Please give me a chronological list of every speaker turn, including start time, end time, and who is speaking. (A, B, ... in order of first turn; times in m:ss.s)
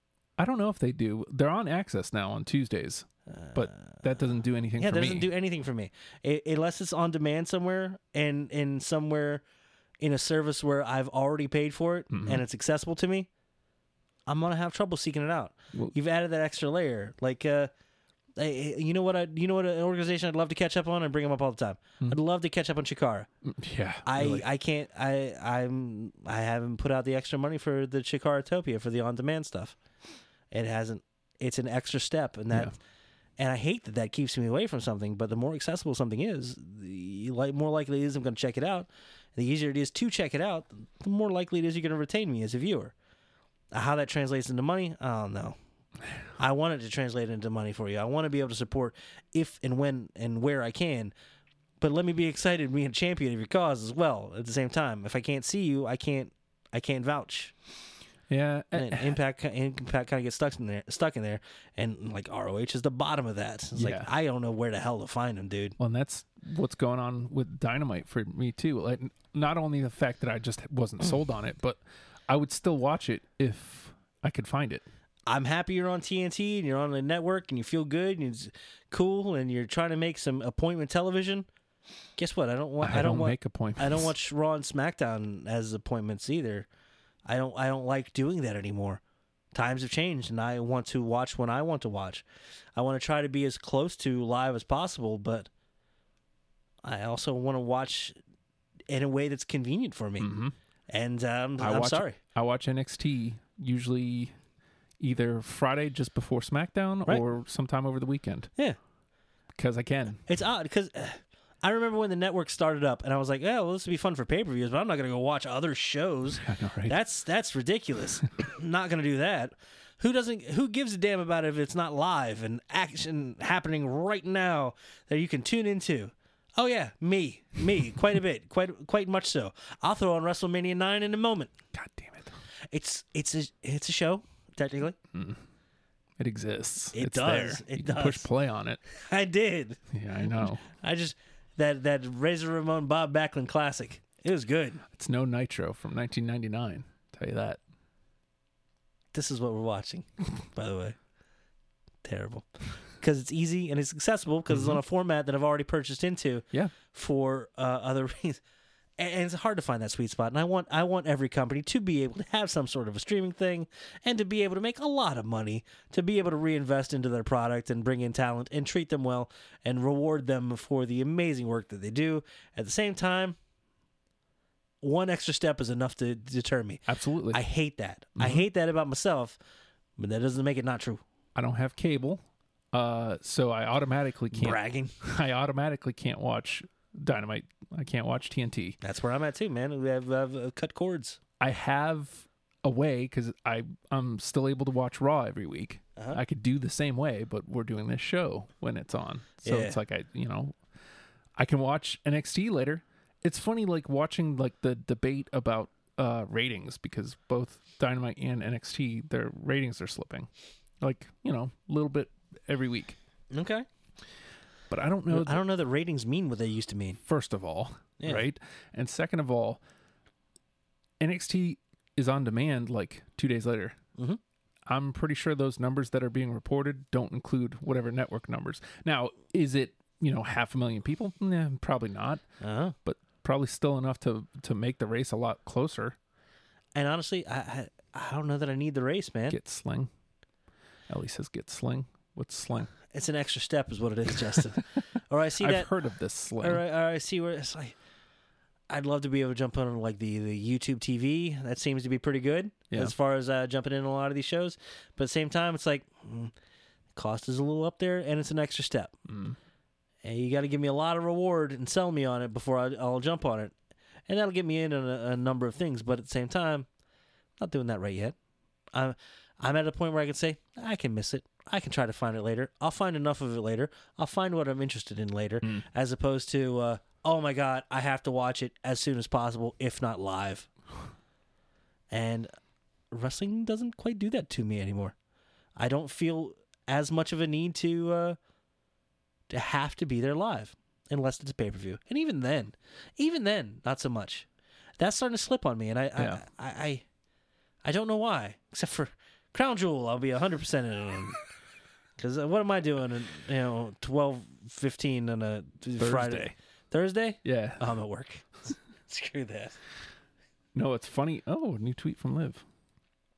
0:00.4-0:05.3 A
0:03.3-0:04.0 B
0:04.8-0:09.4 B
0:10.0-0:13.3 B
0:12.1-0:12.4 A
0:14.3-0:17.7 B
0:18.4-0:23.3 B
0:23.4-0:24.5 A
0:24.0-0:29.8 B
0:30.5-0:32.8 B
0:33.4-0:42.9 B
0:43.7-0:45.6 B
0:46.4-0:51.1 B
0:51.8-0:57.5 B
0:58.3-0:59.2 A
0:58.7-1:05.8 B
1:03.8-1:04.1 A
1:05.8-1:14.8 A
1:15.3-1:21.5 B
1:22.2-1:26.7 B
1:22.8-1:24.1 A
1:27.3-1:29.0 B
1:29.5-1:32.2 B
1:32.8-1:35.5 B
1:36.8-1:38.2 B
1:38.9-1:40.3 B
1:40.2-1:40.5 A
1:40.9-1:42.2 B
1:41.6-1:44.4 A
1:45.0-1:48.5 A
1:49.6-1:50.2 A
1:50.3-2:11.5 B
1:56.4-1:57.0 A
2:11.7-2:12.3 A
2:12.7-2:15.0 B
2:15.1-2:15.4 A
2:16.2-2:18.8 A
2:16.9-2:18.3 B
2:18.9-2:19.8 B
2:19.9-2:20.6 A
2:20.7-2:24.8 B
2:24.9-2:27.6 A
2:29.1-2:31.0 B
2:32.0-2:38.4 B
2:34.5-2:34.8 A
2:39.0-2:53.4 B
2:54.8-2:59.4 B
2:56.9-2:57.4 A
2:58.2-2:58.4 A
3:00.0-3:01.0 B
3:01.4-3:08.8 A
3:04.3-3:05.0 B
3:08.8-3:11.2 B
3:11.4-3:20.6 A
3:19.4-3:19.8 B
3:21.4-3:30.3 A
3:30.8-3:33.0 A
3:33.3-3:33.7 B
3:34.7-3:35.4 A
3:35.1-3:37.0 B
3:37.1-3:39.6 A
3:38.0-3:38.3 B
3:41.0-3:43.8 A
3:44.7-3:52.2 A
3:52.4-3:52.8 B
3:52.8-3:56.0 A
3:56.8-3:59.4 B
3:59.3-3:59.9 A
4:00.9-4:02.7 A
4:02.9-4:05.7 B
4:05.4-4:06.6 A
4:06.4-4:07.8 B
4:08.7-4:16.3 B
4:17.0-4:18.9 B
4:19.1-4:19.4 A
4:20.0-4:23.5 B
4:24.1-4:26.7 B
4:27.4-4:28.2 B
4:28.7-4:40.5 B
4:41.9-4:42.3 B
4:42.9-4:45.0 B
4:45.6-4:48.2 B
4:49.3-4:54.3 B
4:54.8-4:56.8 B
4:56.0-4:56.2 A
4:57.6-5:01.2 B
5:02.0-5:09.6 B
5:05.8-5:06.3 A
5:07.2-5:07.6 A
5:10.5-5:12.4 A